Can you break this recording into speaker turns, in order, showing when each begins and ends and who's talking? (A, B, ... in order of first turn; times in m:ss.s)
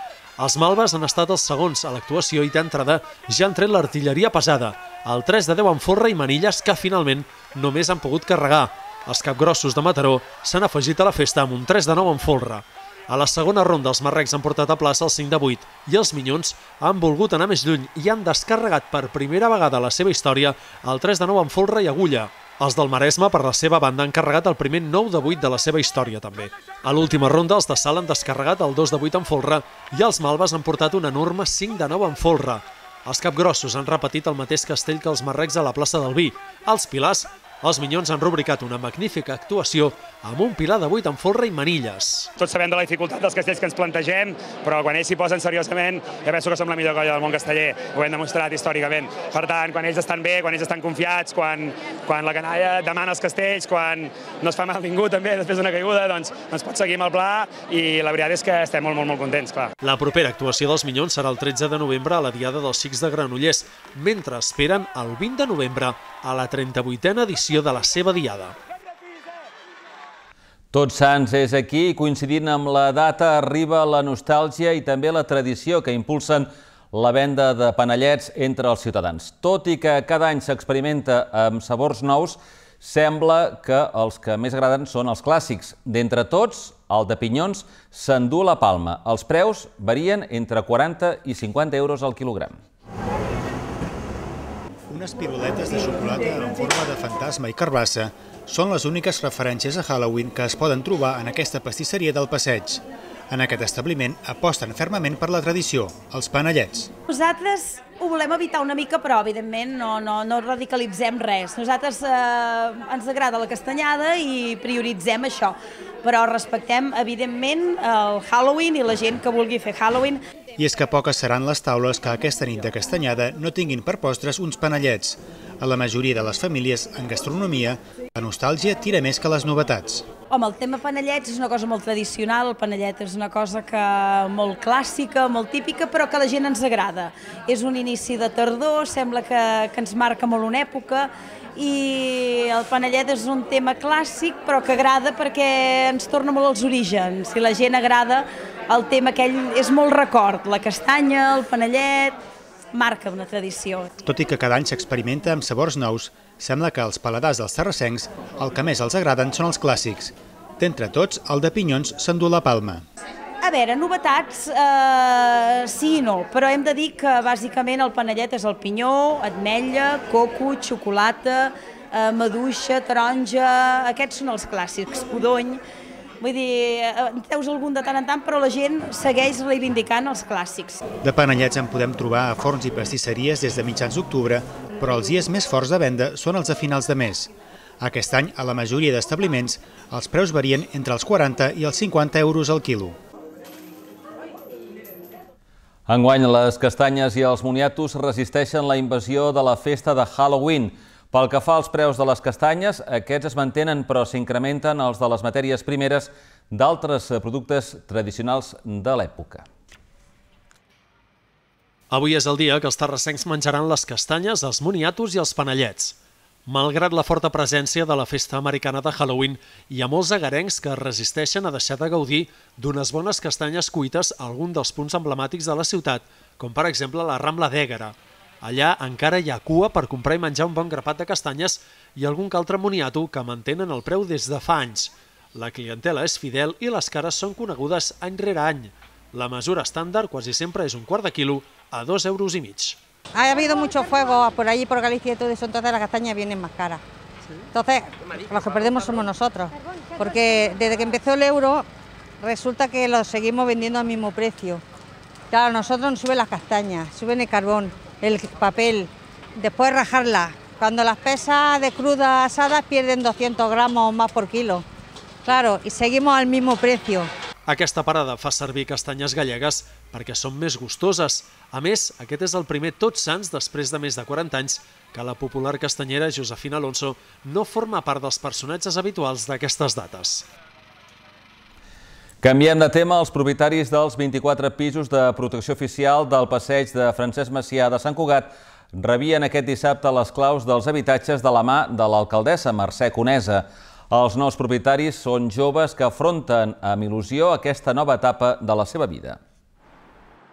0:00.4-0:42.3 A
0:42.4-0:59.7 B
0:59.8-1:08.5 A
1:10.7-1:32.6 C
1:34.9-1:46.9 D
1:47.1-2:00.2 E
2:00.6-2:10.1 D
2:10.3-2:32.2 E
2:32.7-2:34.0 E
2:34.0-2:42.8 D
2:43.4-2:55.6 E
2:56.2-3:00.8 E
3:01.0-3:13.0 D
3:15.9-3:29.4 C
3:31.9-3:35.9 A
3:36.5-4:02.8 A
4:03.1-4:06.8 F
4:07.5-4:11.6 F
4:12.2-4:14.6 F
4:15.3-4:24.6 F
4:25.2-4:27.1 F
4:27.5-4:40.2 A
4:42.2-4:59.2 C